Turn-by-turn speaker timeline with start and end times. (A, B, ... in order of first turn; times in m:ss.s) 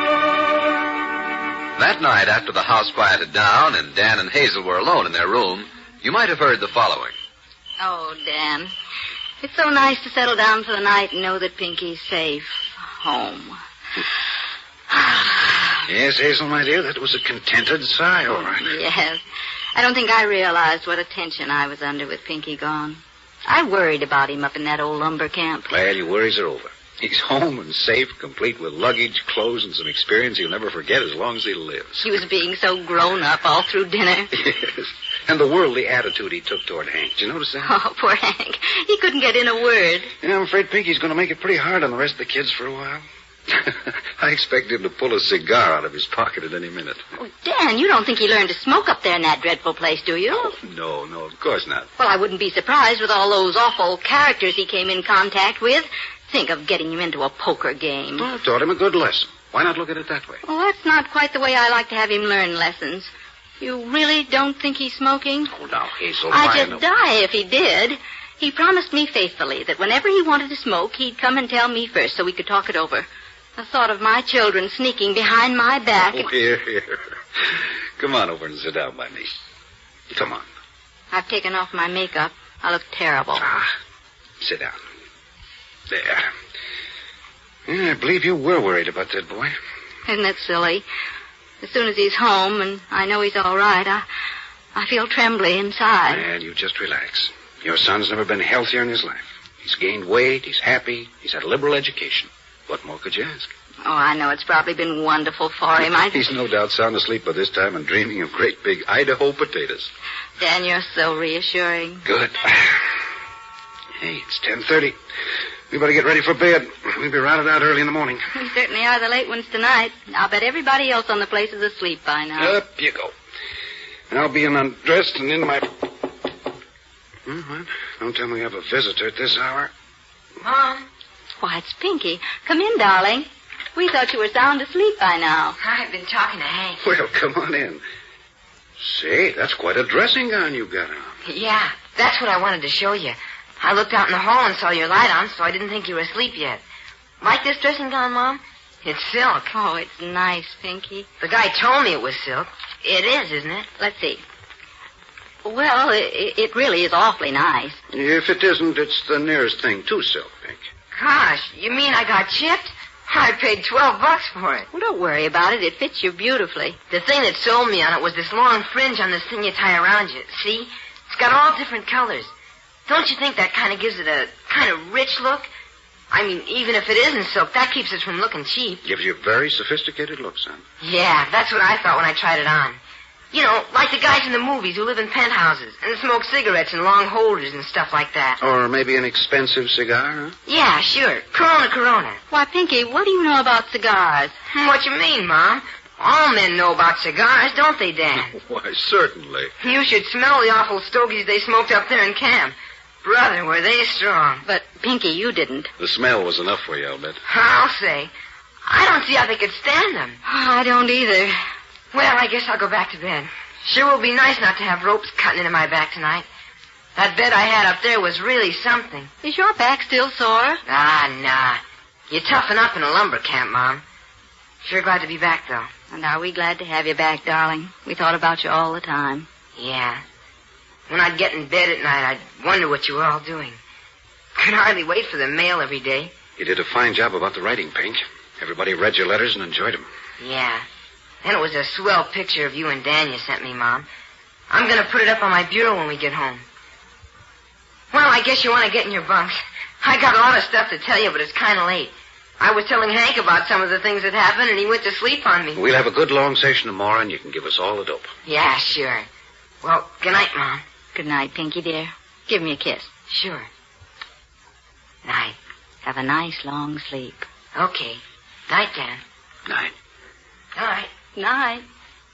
0:01.8-0:07.1 A
0:07.8-0:08.7 B
0:09.4-0:13.6 B
0:14.9-0:15.8 B
0:15.8-0:18.8 C
0:18.3-0:19.2 B
0:19.7-0:25.7 B
0:25.7-0:32.2 C
0:32.0-0:34.3 B
0:34.3-0:37.7 C
0:37.6-0:40.1 B
0:40.2-0:47.0 C
0:47.2-0:50.6 B
0:50.3-0:51.9 C
0:52.0-0:58.3 B
0:58.2-1:00.4 C
1:00.4-1:05.6 B
1:05.5-1:06.8 C
1:06.3-1:16.3 B
1:16.1-1:17.2 C
1:18.0-1:19.3 C
1:20.1-1:20.4 C
1:21.1-1:23.5 B
1:23.4-1:23.7 C
1:24.4-1:24.8 C
1:25.9-1:26.3 C
1:27.7-1:29.6 C
1:30.0-1:30.8 B
1:31.6-1:34.0 B
1:34.7-1:36.3 B
1:36.1-1:43.5 C
1:43.8-1:46.3 B
1:46.0-1:49.9 C
1:50.4-1:52.0 B
1:52.0-1:52.8 C
1:54.0-1:55.0 C
1:55.7-1:58.3 C
1:58.3-2:02.6 B
2:02.4-2:03.1 C
2:04.1-2:05.7 C
2:07.2-2:09.7 C
2:10.4-2:10.9 D
2:11.4-2:15.6 B
2:15.6-2:16.8 D
2:16.8-2:17.8 C
2:18.8-2:21.2 C
2:21.2-2:26.6 D
2:27.2-2:29.5 D
2:29.5-2:31.1 B
2:31.2-2:33.7 D
2:33.8-2:34.2 B
2:35.4-2:37.8 B
2:37.9-2:40.7 C
2:40.9-2:44.7 D
2:44.7-2:46.8 B
2:46.9-2:52.3 D
2:52.9-2:55.5 D
2:56.1-2:58.8 D
2:58.8-3:00.6 C
3:00.8-3:02.8 D
3:03.3-3:08.4 D
3:08.4-3:10.3 C
3:10.5-3:12.2 D
3:12.3-3:14.3 B
3:14.5-3:18.4 D
3:18.3-3:19.5 C
3:19.6-3:24.4 D
3:24.4-3:25.7 B
3:25.8-3:27.2 C
3:27.2-3:28.1 D
3:28.6-3:30.2 D
3:30.2-3:31.4 B
3:31.9-3:36.2 D
3:37.0-3:39.1 D
3:39.2-3:40.6 B
3:40.7-3:43.8 D
3:44.6-3:45.7 D
3:45.9-3:49.3 B
3:49.6-3:50.0 D
3:50.9-3:53.6 D
3:54.4-3:56.2 D
3:56.4-3:59.8 C
4:00.2-4:00.6 D
4:01.2-4:03.9 D
4:04.5-4:06.4 D
4:07.9-4:15.6 D
4:15.5-4:18.1 C
4:18.2-4:19.1 D
4:19.6-4:20.6 D
4:20.9-4:22.9 B
4:23.1-4:23.5 D
4:25.0-4:25.4 D
4:25.8-4:27.2 B
4:27.5-4:29.0 D
4:29.5-4:29.7 C
4:30.5-4:30.9 D
4:31.1-4:31.6 B